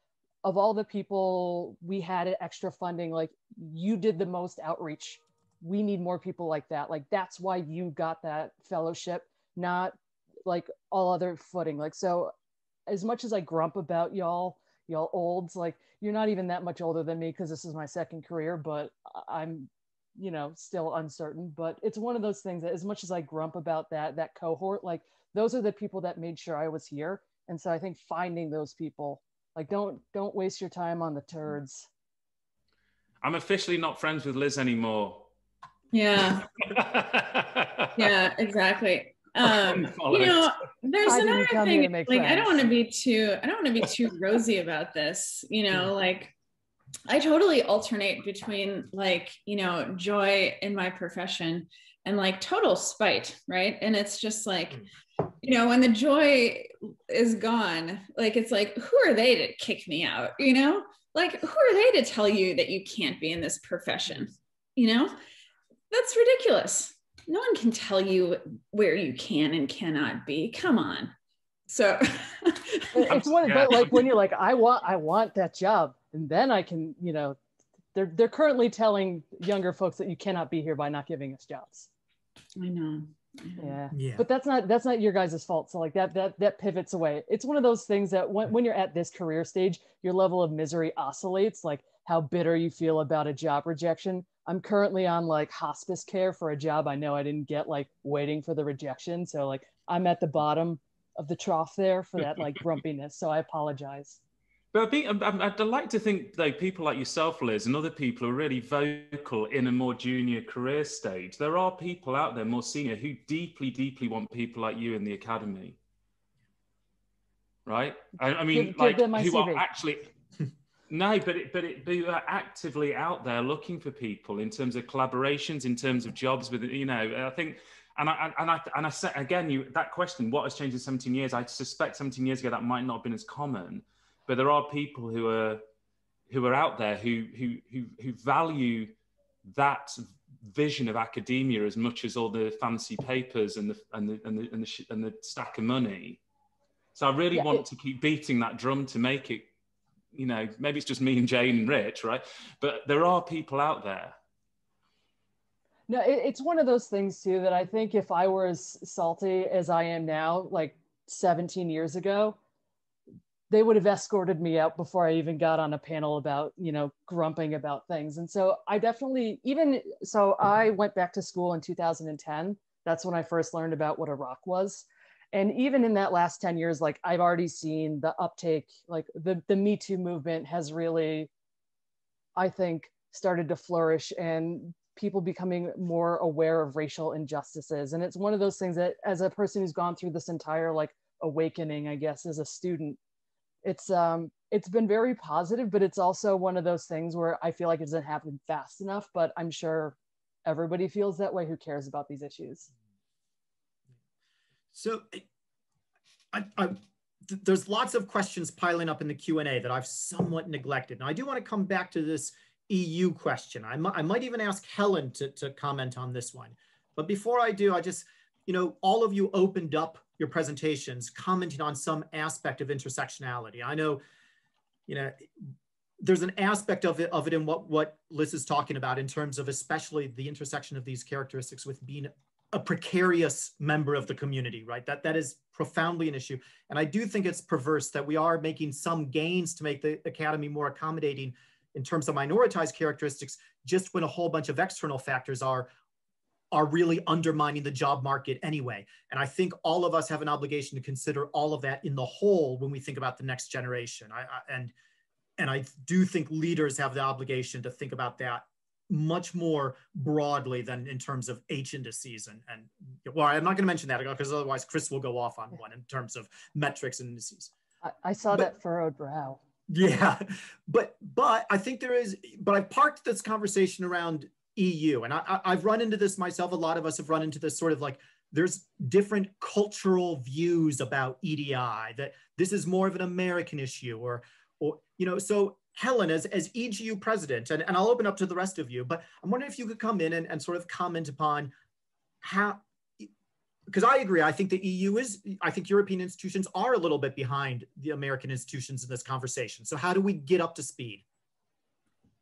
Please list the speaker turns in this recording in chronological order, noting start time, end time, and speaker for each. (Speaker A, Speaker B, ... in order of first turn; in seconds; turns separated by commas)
Speaker A: 0.4-12.3, Speaker A: 12.9-31.9, Speaker B: 33.2-35.3, Speaker C: 35.9-36.5, Speaker B: 36.4-38.2, Speaker C: 38.0-46.3, Speaker B: 39.4-40.5, Speaker A: 41.1-42.7, Speaker C: 47.1-54.9, Speaker C: 55.4-65.2, Speaker C: 65.9-71.1, Speaker C: 71.7-73.1, Speaker A: 72.9-77.4, Speaker B: 73.1-74.1, Speaker A: 77.9-81.9, Speaker C: 82.6-83.8, Speaker A: 83.6-104.2, Speaker D: 83.9-84.2, Speaker B: 104.7-115.8, Speaker B: 117.7-120.1, Speaker A: 118.5-119.6, Speaker B: 120.9-135.6, Speaker B: 136.3-138.9, Speaker B: 139.5-146.2, Speaker B: 146.9-149.5, Speaker A: 147.3-147.7, Speaker B: 150.1-154.2, Speaker A: 155.9-162.4, Speaker A: 163.5-181.3, Speaker A: 182.4-193.0, Speaker A: 193.6-202.7, Speaker D: 204.7-205.2, Speaker D: 206.3-224.0, Speaker D: 224.9-245.7, Speaker D: 246.5-254.7, Speaker D: 255.4-267.5, Speaker A: 267.8-269.4, Speaker D: 269.7-291.5, Speaker D: 292.2-293.1, Speaker D: 293.7-301.0